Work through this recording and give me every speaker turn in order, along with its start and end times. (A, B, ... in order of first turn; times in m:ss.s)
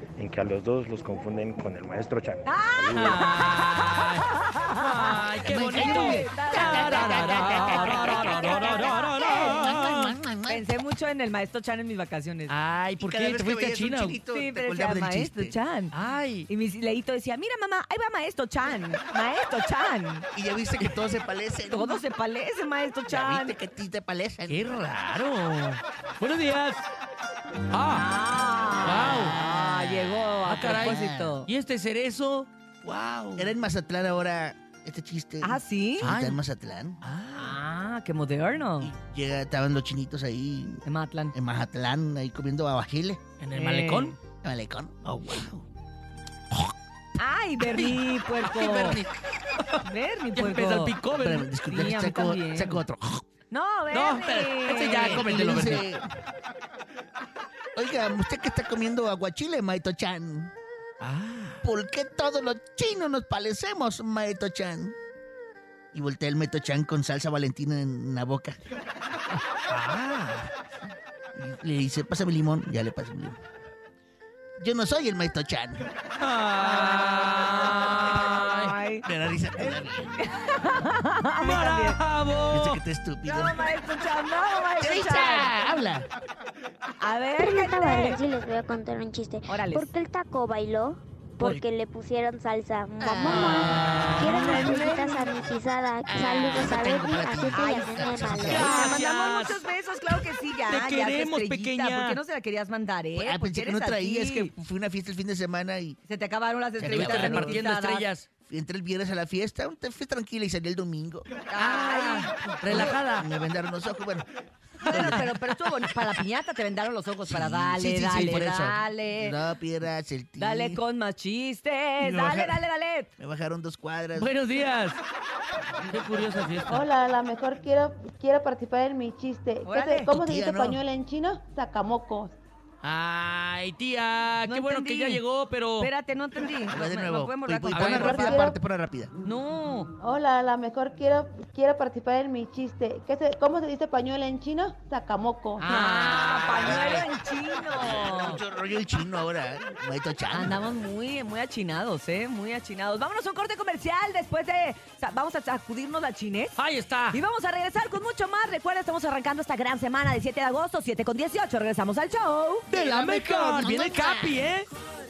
0:00.2-0:03.2 A
0:02.4-0:05.2 B
0:02.9-0:10.2 C
0:05.4-0:10.6 D
0:05.7-0:09.5 B
0:10.5-0:12.5 B
0:12.5-0:14.2 C
0:13.0-0:15.6 D
0:14.3-0:15.9 B
0:15.9-0:16.5 C
0:16.5-0:20.3 B
0:20.3-0:22.0 D
0:21.7-0:23.6 B
0:23.1-0:24.7 D
0:24.5-0:26.8 C
0:27.7-0:28.1 C
0:27.9-0:31.5 B
0:28.8-0:33.5 C
0:30.6-0:31.4 D
0:33.4-0:37.0 D
0:35.4-0:36.1 B
0:36.0-0:36.4 C
0:37.0-0:37.6 C
0:37.4-0:38.9 B
0:38.8-0:43.2 D
0:40.8-0:41.3 B
0:43.4-0:44.2 C
0:43.5-0:44.1 B
0:44.4-0:45.5 D
0:45.0-0:45.6 C
0:47.2-0:49.0 B
0:47.6-0:49.8 C
0:49.8-0:50.9 B
0:50.3-0:51.5 C
0:51.1-0:53.2 D
0:51.6-0:52.8 B
0:53.5-0:55.2 B
0:53.9-0:55.8 C
0:54.9-0:56.0 D
0:57.8-1:00.5 D
1:01.0-1:01.6 C
1:01.6-1:04.9 D
1:05.9-1:08.6 D
1:09.7-1:10.5 C
1:11.4-1:13.4 D
1:14.6-1:15.9 D
1:16.2-1:18.7 C
1:16.6-1:22.0 B
1:19.0-1:20.1 D
1:21.4-1:22.8 C
1:22.5-1:23.6 D
1:23.2-1:25.5 B
1:24.8-1:26.1 D
1:27.0-1:28.2 B
1:27.4-1:38.9 E
1:29.5-1:29.9 B
1:33.0-1:34.0 D
1:33.2-1:34.8 C
1:33.3-1:35.3 B
1:36.0-1:38.8 D
1:37.5-1:37.9 B
1:38.4-1:39.6 C
1:38.6-1:44.5 B
1:40.7-1:42.2 C
1:43.2-1:46.0 D
1:46.0-1:48.1 B
1:46.8-1:47.6 D
1:46.8-1:48.3 C
1:48.5-1:51.3 D
1:51.5-1:52.9 B
1:51.6-1:53.3 C
1:52.5-1:54.2 D
1:54.8-1:59.4 B
1:54.8-1:55.3 D
1:57.3-2:00.8 D
2:00.4-2:03.1 B
2:02.0-2:02.6 D
2:03.2-2:04.3 D
2:04.1-2:05.0 C
2:05.9-2:06.8 C
2:06.7-2:12.3 F
2:09.6-2:10.1 B
2:10.1-2:10.8 D
2:12.8-2:15.9 C
2:14.4-2:15.2 B
2:15.8-2:18.4 B
2:16.7-2:19.1 D
2:17.7-2:18.3 C
2:17.9-2:18.6 F
2:19.2-2:19.9 B
2:20.0-2:25.6 F
2:25.6-2:28.4 B
2:25.6-2:27.0 C
2:26.7-2:27.0 D
2:27.7-2:30.6 D
2:30.3-2:36.6 B
2:36.6-2:37.2 C
2:37.1-2:42.7 B
2:42.7-2:44.4 D
2:42.7-2:44.7 C